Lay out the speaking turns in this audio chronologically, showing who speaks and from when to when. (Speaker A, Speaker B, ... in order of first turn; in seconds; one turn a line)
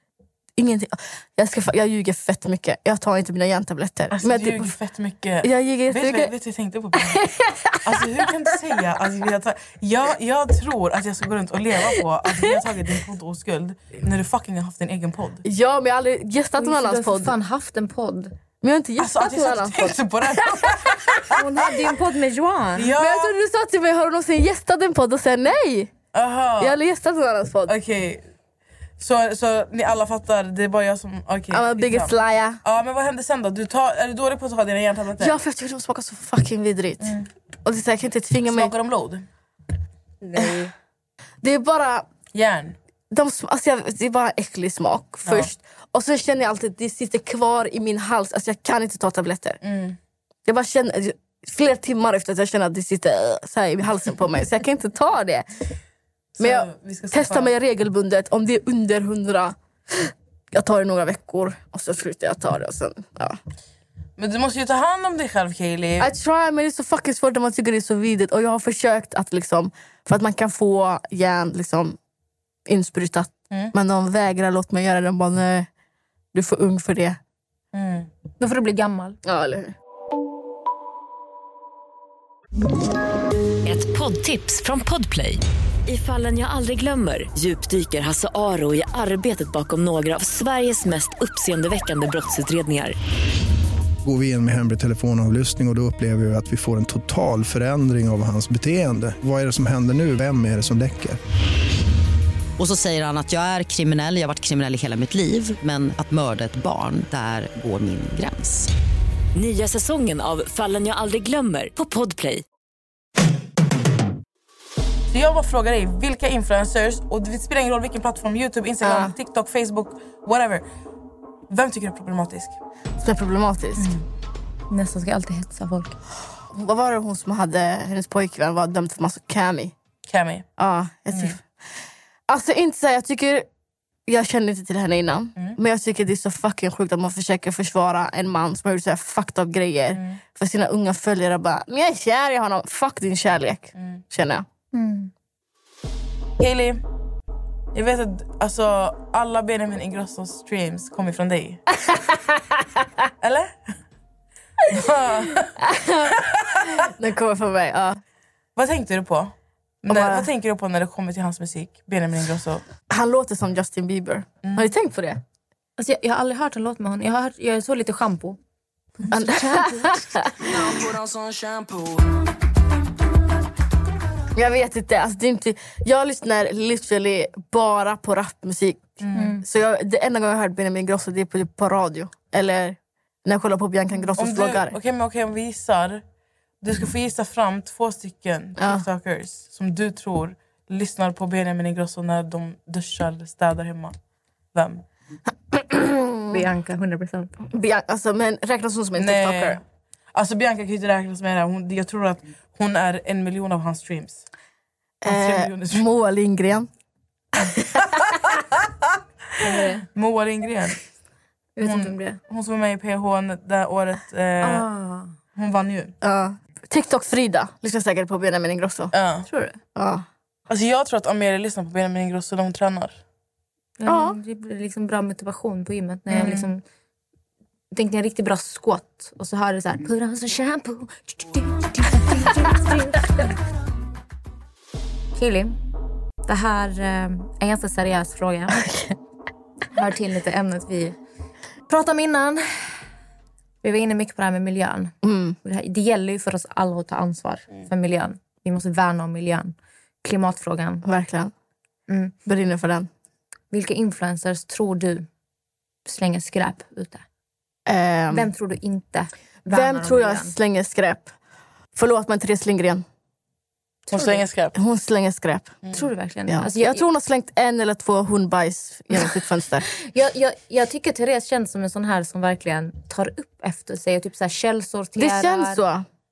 Speaker A: 0.6-4.7
Speaker B: 4.1-7.2
Speaker A: 5.4-6.3
Speaker A: 7.0-8.3
Speaker B: 7.8-15.4
Speaker A: 15.4-17.3
Speaker C: 16.6-18.3
Speaker A: 18.6-21.2
Speaker B: 19.0-21.3
Speaker C: 21.3-23.0
Speaker B: 22.8-23.4
Speaker A: 23.0-25.9
Speaker B: 26.1-26.8
Speaker A: 26.6-27.8
Speaker B: 27.7-28.2
Speaker B: 29.0-35.4
Speaker A: 31.5-32.6
Speaker A: 35.2-38.7
Speaker B: 37.0-37.3
Speaker B: 38.5-39.3
Speaker C: 40.2-40.7
Speaker A: 41.4-42.1
Speaker B: 42.3-42.8
Speaker A: 43.1-49.6
Speaker B: 49.6-50.0
Speaker A: 50.5-55.5
Speaker B: 56.4-57.5
Speaker A: 56.4-63.4
Speaker B: 64.2-66.1
Speaker A: 66.0-72.0
Speaker A: 72.7-75.7
Speaker A: 76.3-77.2
Speaker B: 77.7-78.1
Speaker C: 78.4-79.2
Speaker A: 79.2-79.8
Speaker D: 83.7-93.0
Speaker E: 94.0-101.2
Speaker F: 102.6-108.7
Speaker D: 109.3-112.4
Speaker B: 115.1-120.6
Speaker A: 118.8-119.1
Speaker B: 121.5-122.6
Speaker A: 123.0-123.9
Speaker B: 123.8-124.0
Speaker C: 124.7-126.0
Speaker A: 126.5-129.7
Speaker B: 130.1-130.5
Speaker A: 130.6-131.4
Speaker A: 132.3-133.5
Speaker A: 134.1-144.4
Speaker B: 139.9-140.2
Speaker B: 143.8-144.0
Speaker C: 144.7-145.1
Speaker B: 146.4-146.8
Speaker B: 147.7-151.6
Speaker B: 153.2-153.5
Speaker B: 154.7-155.6
Speaker A: 155.6-158.0
Speaker B: 156.1-156.8
Speaker B: 158.6-162.6
Speaker A: 159.9-160.3
Speaker A: 162.9-165.2
Speaker B: 164.4-164.7
Speaker C: 165.8-168.4
Speaker C: 169.0-170.1
Speaker A: 169.1-170.7
Speaker B: 171.1-171.7
Speaker A: 174.3-184.7
Speaker B: 179.0-179.3
Speaker C: 179.2-179.4
Speaker B: 184.2-186.0
Speaker B: 186.6-193.9
Speaker A: 188.6-188.8
Speaker B: 194.5-194.8
Speaker C: 195.8-197.3
Speaker A: 197.5-199.6
Speaker B: 199.0-199.6
Speaker B: 200.1-204.2
Speaker A: 205.0-206.7
Speaker B: 205.1-205.8
Speaker A: 207.4-208.2
Speaker B: 209.4-210.8
Speaker C: 209.4-209.8
Speaker C: 211.6-212.2
Speaker B: 211.6-214.7
Speaker C: 214.4-215.1
Speaker B: 215.3-215.9
Speaker A: 216.0-218.9
Speaker B: 218.9-219.3
Speaker C: 219.3-219.6
Speaker A: 219.8-220.1
Speaker B: 220.5-223.0
Speaker C: 223.8-226.6
Speaker A: 223.9-224.2
Speaker B: 226.1-226.5
Speaker C: 227.7-233.4
Speaker C: 235.2-235.6
Speaker C: 236.3-238.7
Speaker A: 238.6-238.9
Speaker C: 239.7-241.0
Speaker C: 241.7-242.8
Speaker C: 243.6-250.8
Speaker A: 245.0-245.4
Speaker A: 250.8-251.3
Speaker C: 251.9-252.1
Speaker A: 252.3-252.9
Speaker C: 253.5-255.1
Speaker C: 255.8-257.0
Speaker A: 257.7-258.3
Speaker C: 258.1-260.4
Speaker A: 259.5-261.1
Speaker A: 261.8-262.9
Speaker C: 263.9-264.2
Speaker B: 263.9-264.5
Speaker A: 264.6-265.6
Speaker C: 265.7-266.8
Speaker A: 266.3-269.7
Speaker C: 269.7-275.6
Speaker A: 275.0-275.9